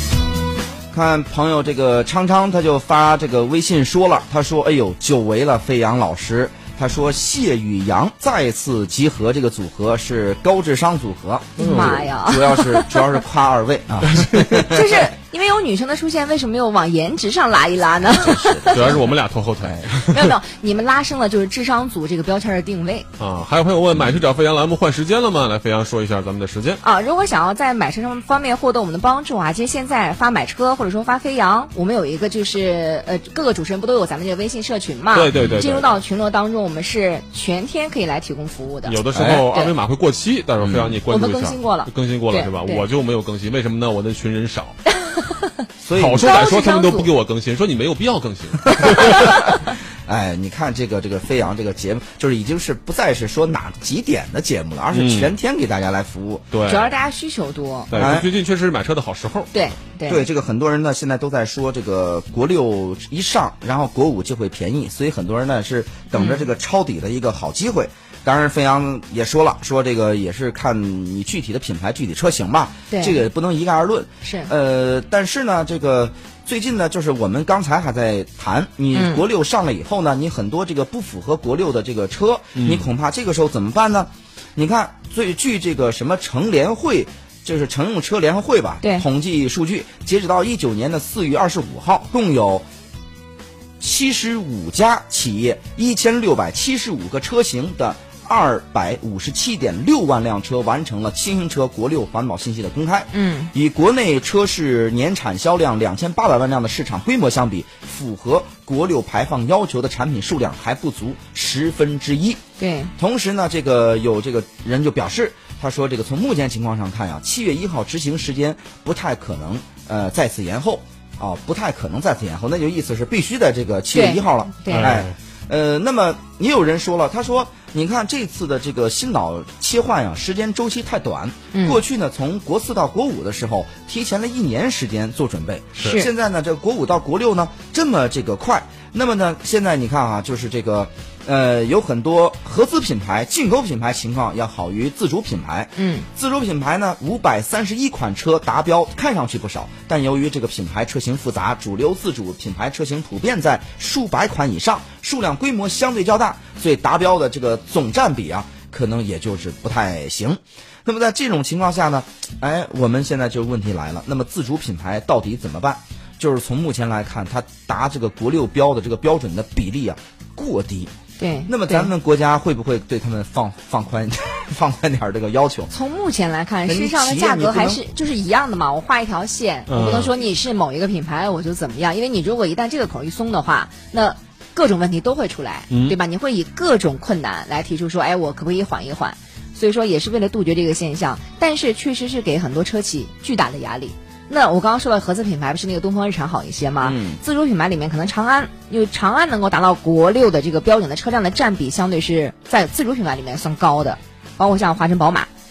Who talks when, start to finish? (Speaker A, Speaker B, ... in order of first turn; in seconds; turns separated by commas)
Speaker A: 0.9-15.1, Speaker B: 11.6-13.2, Speaker C: 11.6-12.1, Speaker C: 14.1-14.6, Speaker B: 14.5-19.0, Speaker A: 18.1-19.0, Speaker C: 18.7-20.4, Speaker B: 20.1-23.1, Speaker C: 23.2-26.8, Speaker B: 26.8-39.0, Speaker C: 35.1-36.0, Speaker A: 35.3-35.6, Speaker C: 38.9-44.8, Speaker A: 39.1-39.5, Speaker A: 40.6-41.0, Speaker B: 41.1-42.9, Speaker B: 44.9-45.6, Speaker A: 45.8-46.3, Speaker C: 46.0-49.4, Speaker B: 46.2-47.1, Speaker B: 49.1-49.4, Speaker A: 50.0-56.5, Speaker C: 54.9-55.3, Speaker C: 56.5-56.9, Speaker B: 56.6-58.1, Speaker C: 57.9-59.5, Speaker A: 57.9-58.3, Speaker B: 59.5-60.3, Speaker A: 60.1-92.6, Speaker B: 66.1-66.5, Speaker B: 72.9-73.2, Speaker B: 74.2-74.5, Speaker B: 78.9-79.2, Speaker C: 82.5-82.8, Speaker A: 93.8-112.4, Speaker B: 103.1-103.5, Speaker B: 112.6-112.9, Speaker A: 113.0-170.9, Speaker B: 123.9-124.9, Speaker C: 124.7-125.1, Speaker B: 131.5-131.8, Speaker B: 135.8-136.1, Speaker B: 145.8-146.1, Speaker B: 171.2-171.9, Speaker A: 171.5-175.7, Speaker B: 175.7-205.3, Speaker A: 176.7-177.8, Speaker C: 179.7-180.1, Speaker C: 185.7-186.0, Speaker A: 196.8-197.2